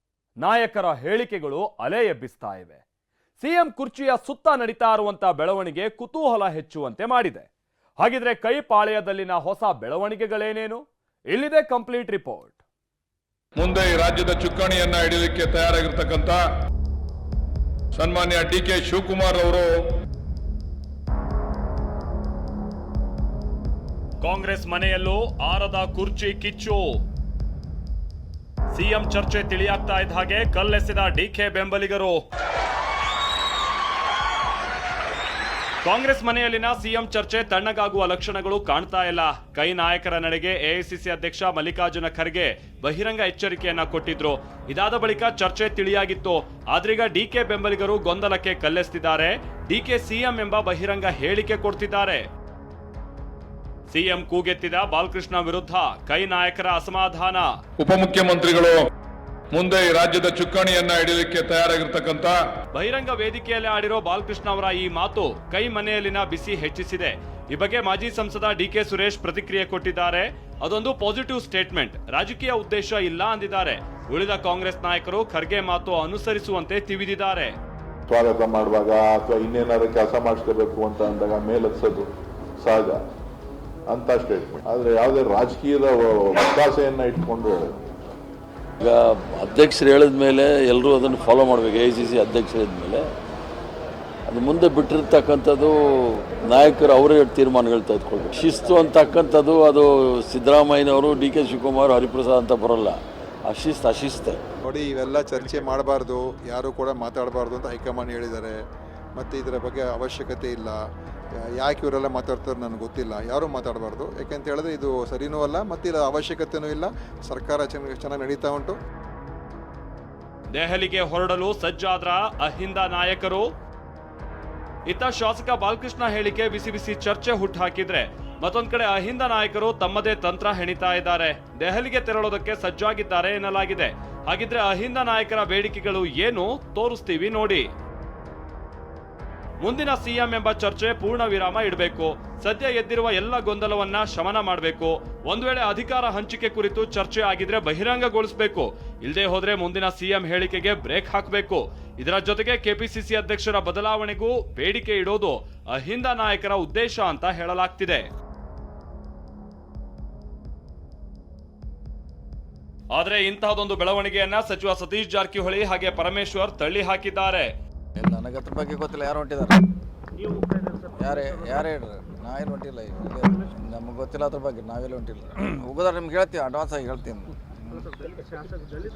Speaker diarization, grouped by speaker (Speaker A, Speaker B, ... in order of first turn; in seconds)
Speaker A: 0.4-2.8, 3.4-7.5, 8.0-12.6, 24.2-26.9, 28.7-32.2, 35.8-52.3, 53.9-57.5, 62.7-77.5, 120.5-123.5, 124.9-137.7, 139.6-158.1, 162.9-167.5
Speaker B: 13.6-16.4, 18.0-19.7, 57.8-58.8, 59.5-62.4
Speaker C: 78.1-82.1, 82.6-83.0, 83.9-87.6
Speaker D: 88.8-93.1, 94.3-104.4
Speaker E: 104.7-108.6, 109.2-110.8, 111.6-118.8
Speaker F: 168.0-169.6, 171.0-177.9